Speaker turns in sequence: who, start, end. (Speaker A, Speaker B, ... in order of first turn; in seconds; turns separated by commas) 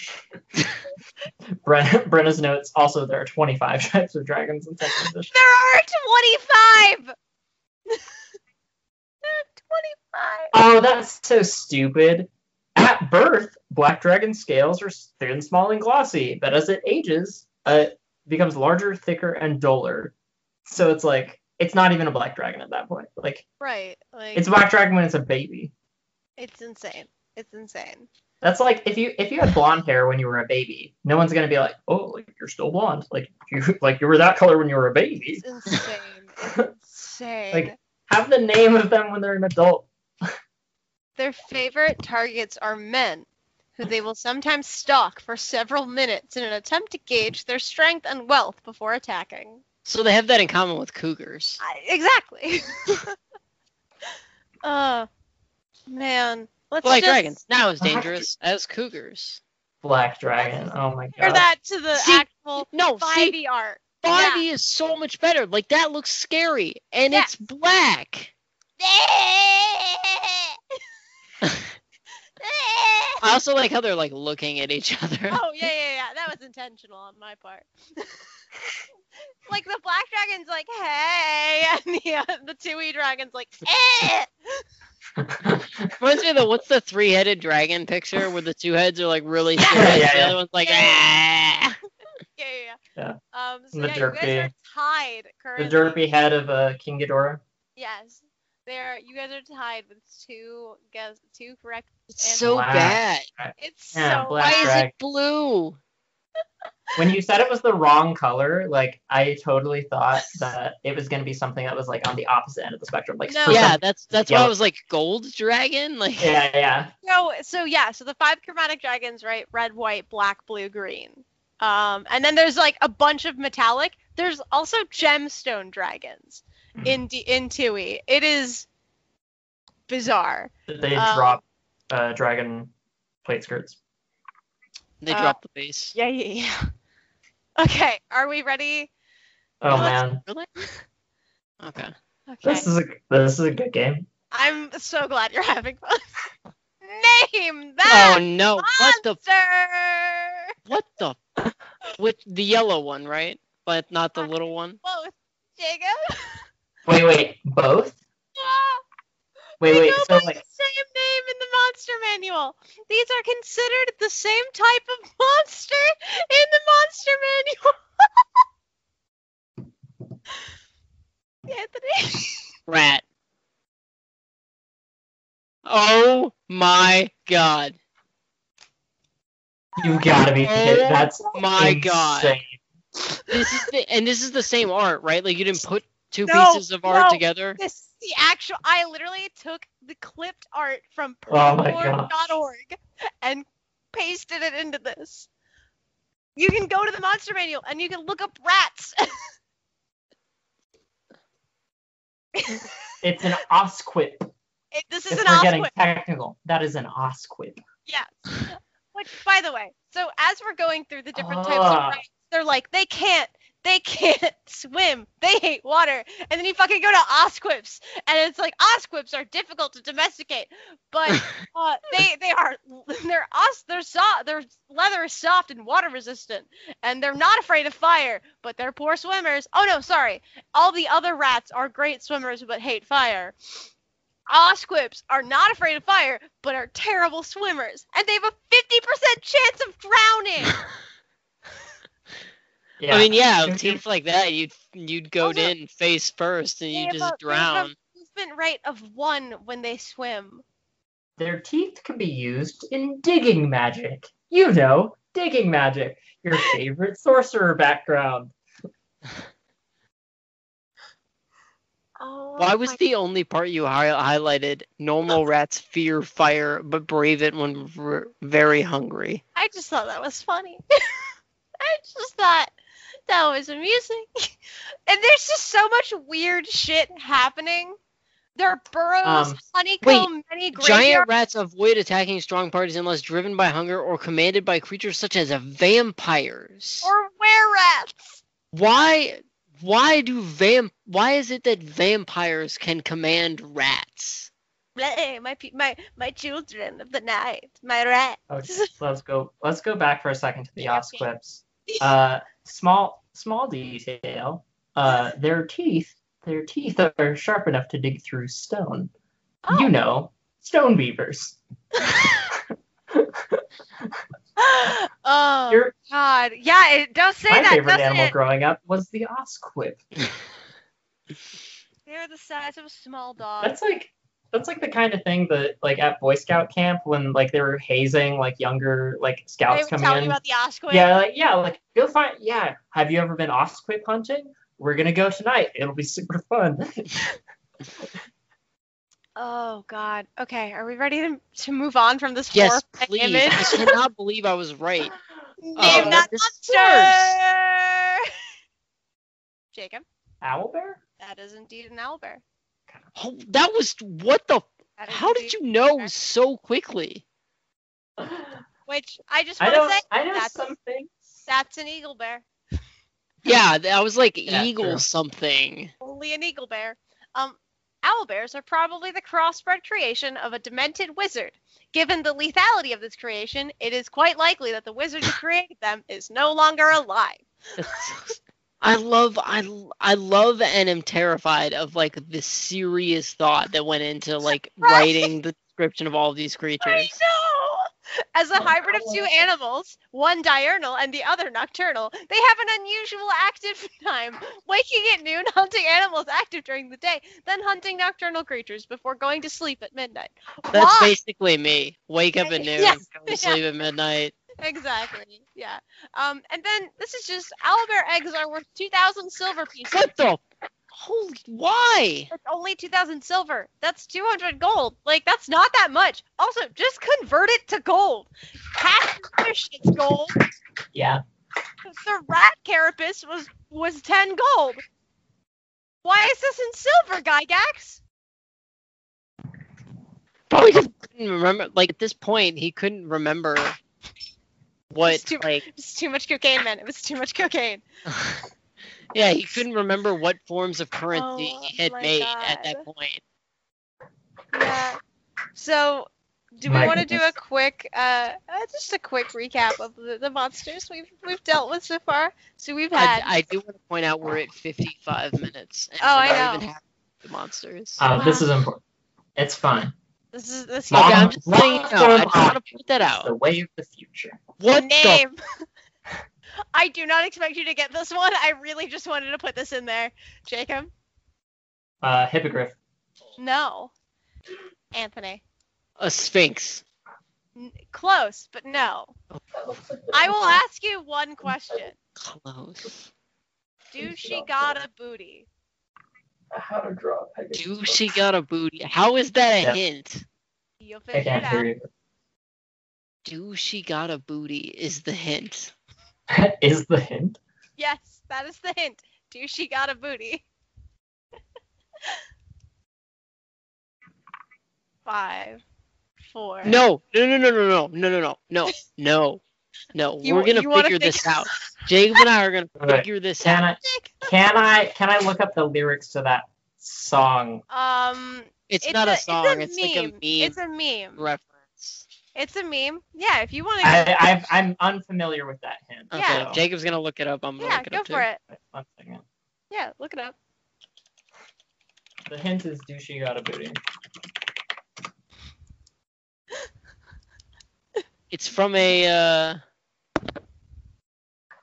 Speaker A: 1.6-5.3, Speaker B: 5.3-7.1, Speaker B: 9.2-10.5, Speaker A: 10.5-20.1, Speaker A: 20.6-23.4, Speaker B: 23.6-24.5, Speaker A: 24.3-25.7, Speaker B: 26.4-28.1, Speaker A: 28.4-35.4, Speaker B: 35.4-37.8, Speaker A: 36.4-36.7, Speaker A: 37.5-39.9, Speaker B: 41.2-43.3, Speaker B: 43.8-49.6, Speaker C: 49.8-51.6, Speaker B: 51.6-53.1, Speaker B: 54.6-55.1, Speaker B: 55.9-57.4, Speaker C: 56.8-59.4, Speaker A: 57.8-58.3, Speaker A: 59.8-61.5, Speaker B: 60.4-64.4, Speaker C: 61.9-63.4, Speaker C: 64.0-68.3, Speaker B: 68.8-70.8, Speaker C: 71.4-71.7, Speaker B: 72.4-73.2, Speaker C: 73.2-75.4, Speaker B: 75.3-78.2, Speaker B: 79.5-84.6, Speaker A: 85.2-85.9, Speaker C: 86.0-91.8, Speaker B: 89.6-90.0, Speaker A: 89.7-90.4, Speaker B: 90.6-91.0, Speaker B: 92.3-92.8, Speaker B: 93.3-96.0, Speaker A: 93.7-94.5, Speaker A: 95.6-97.4, Speaker B: 97.8-102.5, Speaker C: 102.1-103.3, Speaker A: 102.4-104.9, Speaker B: 103.6-104.8, Speaker C: 104.4-105.8, Speaker A: 107.0-114.5, Speaker B: 113.3-113.7, Speaker C: 113.5-116.4, Speaker A: 116.2-116.9, Speaker B: 117.0-128.7, Speaker B: 129.9-131.4, Speaker A: 130.7-132.7, Speaker A: 133.2-133.8, Speaker C: 135.0-135.9, Speaker B: 135.1-135.4, Speaker B: 135.9-136.7, Speaker B: 137.6-138.9, Speaker A: 139.6-140.2, Speaker C: 139.7-140.5, Speaker C: 141.6-141.9, Speaker B: 142.3-142.7, Speaker A: 142.4-144.1, Speaker B: 144.3-146.1, Speaker B: 146.8-150.5, Speaker C: 147.8-149.2, Speaker C: 150.7-151.2, Speaker C: 152.0-154.8, Speaker B: 154.8-156.5, Speaker A: 156.8-158.0, Speaker B: 158.3-158.8, Speaker B: 159.6-168.2, Speaker A: 159.6-160.4, Speaker B: 171.5-172.5, Speaker C: 172.7-173.0, Speaker C: 175.7-177.8, Speaker A: 179.8-182.6, Speaker C: 180.4-182.4, Speaker C: 183.3-187.6, Speaker B: 186.2-195.3, Speaker A: 191.3-192.1, Speaker B: 196.3-199.3, Speaker B: 202.3-202.9, Speaker A: 203.0-204.3, Speaker B: 204.7-205.7, Speaker A: 205.1-207.6, Speaker B: 207.9-233.3, Speaker A: 211.1-212.0, Speaker B: 234.3-240.6, Speaker A: 242.8-243.8, Speaker C: 242.9-247.7, Speaker B: 245.2-245.5, Speaker B: 246.7-250.4, Speaker A: 251.2-258.3, Speaker B: 262.0-262.8, Speaker C: 262.4-269.2, Speaker B: 269.3-272.5, Speaker B: 273.1-274.3, Speaker B: 274.9-277.8, Speaker B: 278.4-281.1, Speaker A: 279.0-279.4, Speaker C: 279.8-286.9, Speaker B: 286.8-288.2, Speaker C: 288.5-294.3, Speaker B: 294.8-298.7, Speaker A: 298.3-308.9, Speaker B: 300.6-301.1, Speaker B: 309.4-309.7, Speaker A: 309.5-311.4, Speaker B: 311.8-312.3, Speaker A: 312.9-313.4, Speaker B: 314.4-318.1, Speaker A: 317.3-319.8, Speaker B: 321.9-323.6, Speaker A: 323.4-330.2, Speaker B: 329.5-330.9, Speaker A: 330.7-337.1, Speaker B: 339.1-343.8, Speaker C: 342.3-344.9, Speaker B: 345.4-348.1, Speaker C: 345.6-347.1, Speaker A: 345.6-346.1, Speaker B: 349.5-349.8, Speaker A: 350.2-350.8, Speaker B: 351.0-352.2, Speaker C: 352.9-357.0, Speaker B: 354.8-355.9, Speaker A: 358.0-358.4, Speaker B: 358.7-360.4, Speaker A: 359.4-361.1, Speaker B: 361.2-362.2, Speaker C: 363.2-365.7, Speaker A: 364.3-364.8, Speaker B: 365.8-377.2, Speaker C: 377.6-386.9, Speaker B: 384.6-385.1, Speaker B: 386.6-400.9, Speaker A: 388.4-389.1, Speaker C: 400.5-404.1, Speaker B: 402.2-403.4, Speaker B: 404.4-409.9, Speaker C: 409.7-410.2, Speaker C: 410.7-412.1, Speaker B: 412.1-420.2, Speaker A: 420.7-421.0, Speaker B: 421.6-424.6, Speaker B: 425.8-427.8, Speaker C: 430.3-433.6, Speaker C: 434.7-435.4, Speaker B: 434.8-437.6, Speaker C: 437.9-438.2, Speaker C: 438.9-443.0, Speaker B: 440.9-442.6, Speaker B: 444.3-444.8, Speaker B: 445.3-453.1, Speaker A: 446.4-447.0, Speaker C: 452.7-457.9, Speaker B: 455.8-456.4, Speaker A: 457.8-458.6, Speaker B: 457.9-458.3, Speaker A: 459.2-459.7, Speaker B: 460.1-461.9, Speaker A: 460.7-464.2, Speaker C: 460.7-463.1, Speaker C: 464.4-465.0, Speaker B: 464.5-465.2, Speaker B: 466.5-470.7, Speaker A: 471.8-472.6, Speaker B: 473.2-473.7, Speaker B: 474.7-475.2, Speaker C: 475.8-476.6, Speaker B: 477.4-478.9, Speaker A: 479.4-480.4, Speaker B: 479.9-481.8, Speaker C: 482.0-482.9, Speaker B: 483.7-485.3, Speaker A: 483.8-484.6, Speaker A: 486.4-487.8, Speaker C: 487.3-490.0, Speaker B: 490.6-491.5, Speaker A: 490.9-491.7, Speaker C: 493.0-495.5, Speaker A: 496.1-497.2, Speaker B: 497.6-500.2, Speaker B: 504.9-505.4, Speaker B: 506.1-506.6, Speaker C: 506.4-509.2, Speaker C: 509.7-513.4, Speaker B: 510.0-512.0, Speaker A: 512.6-517.4, Speaker B: 513.2-514.1, Speaker B: 517.5-521.0, Speaker C: 518.5-520.4, Speaker C: 521.0-521.8, Speaker B: 522.1-524.0, Speaker A: 523.6-526.4, Speaker C: 525.9-528.0, Speaker B: 525.9-526.3, Speaker B: 527.4-528.2, Speaker A: 528.3-529.0, Speaker B: 529.5-530.1, Speaker A: 532.1-533.6, Speaker C: 538.1-539.4